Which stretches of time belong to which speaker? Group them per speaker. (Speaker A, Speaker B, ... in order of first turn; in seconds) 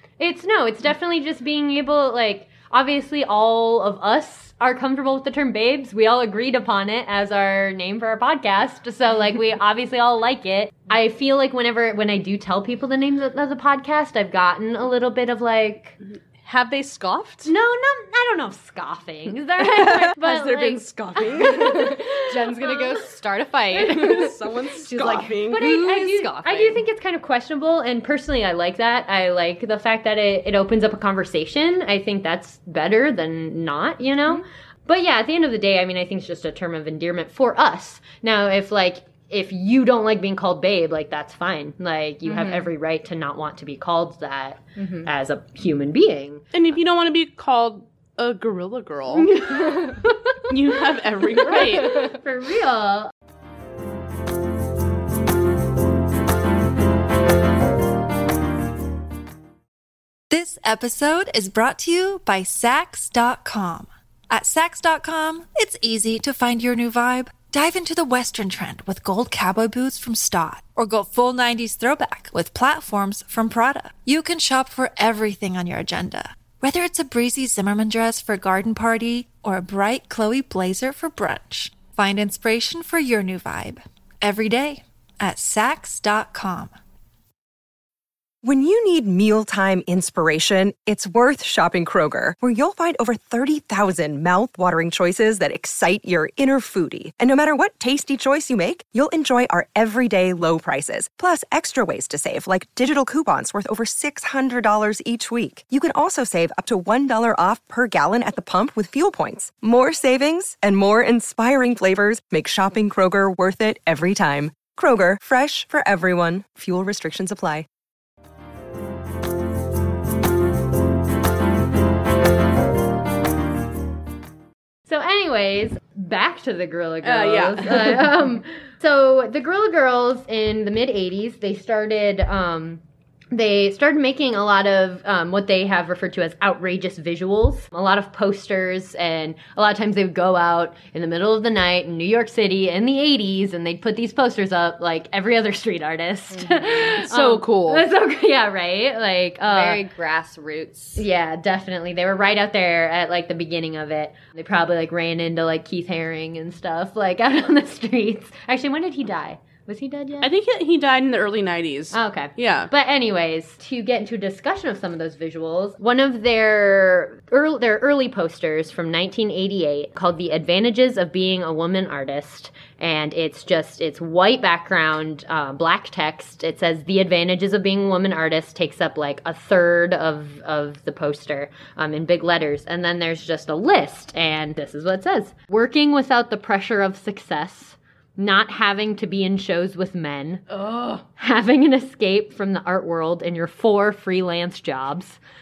Speaker A: 0.2-16.0, 17.4-22.9, 23.8-24.3, 25.4-46.5, 49.1-50.2, 51.4-53.1, 124.9-132.8, 133.3-149.8, 151.0-160.3, 161.9-190.4, 191.1-195.2
Speaker B: 16.4-17.5, 19.6-22.0, 23.9-25.8, 46.5-49.5, 50.5-52.0, 127.0-128.1, 146.8-147.9, 160.2-162.7, 190.5-191.0
Speaker C: 21.9-26.8, 42.3-42.7, 44.8-45.1, 146.3-146.7, 149.5-151.1
Speaker D: 60.3-86.8
Speaker E: 88.4-117.7